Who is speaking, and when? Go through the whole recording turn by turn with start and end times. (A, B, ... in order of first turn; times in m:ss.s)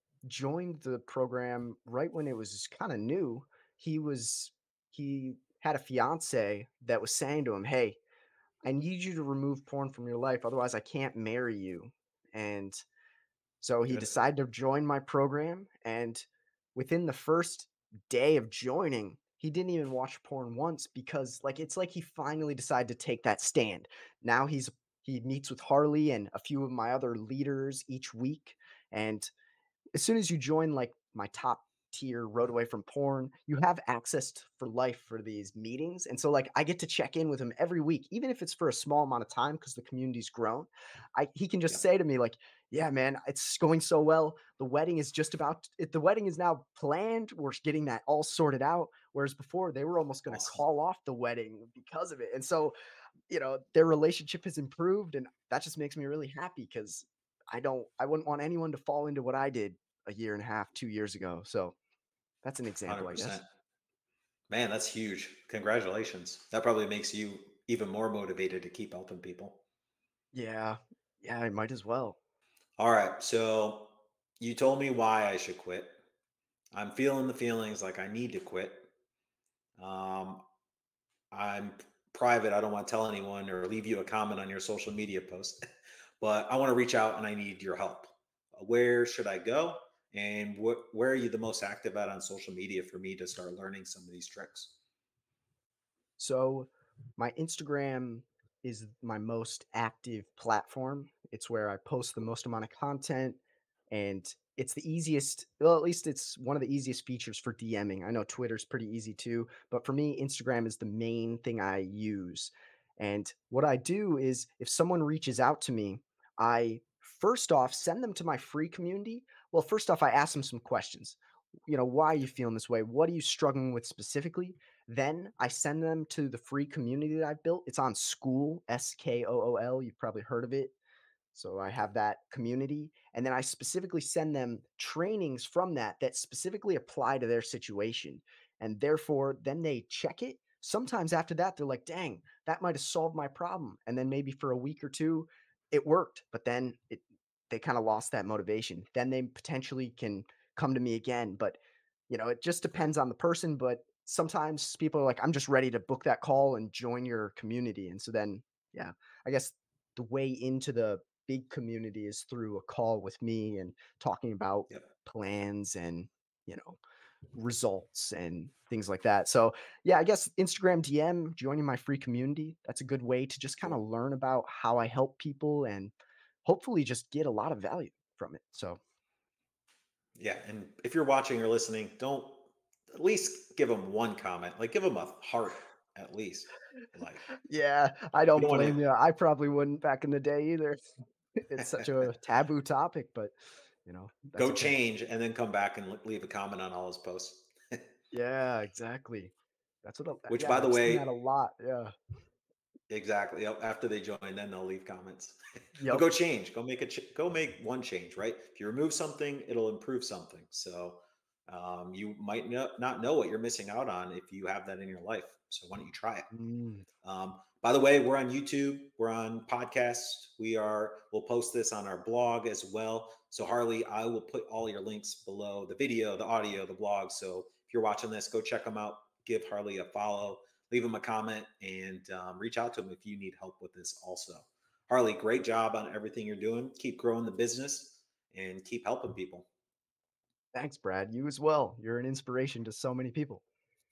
0:00.2-0:08.0 A
0:08.6-0:12.8 A
0:13.6-0:29.3 A
0:13.9-0:14.2 B
0:29.9-0:52.7 A
0:50.3-0:50.6 B
0:53.3-1:01.8 A
1:02.4-1:03.4 A
1:02.9-1:03.5 B
1:04.5-1:09.6 B
1:10.3-1:12.2 A
1:12.8-1:16.0 B
1:16.7-1:18.9 B
1:19.8-1:20.4 B
1:21.3-1:25.6 B
1:26.2-1:34.7 B
1:36.2-1:43.4 A
1:43.9-2:10.7 A
2:11.3-2:31.6 A
2:32.1-2:46.8 A
2:47.3-2:55.9 A
2:56.4-2:58.8 A
3:00.2-3:07.2 B
3:07.3-3:10.8 A
3:08.4-3:08.8 B
3:11.4-3:13.3 A
3:11.6-3:11.9 B
3:13.8-3:14.8 A
3:14.4-3:17.8 B
3:18.1-3:19.3 A
3:19.8-3:21.9 A
3:20.3-3:21.0 B
3:22.9-3:36.3 B
3:25.8-3:26.0 A
3:36.3-3:36.9 A
3:37.0-3:59.5 B
4:00.5-4:03.4 A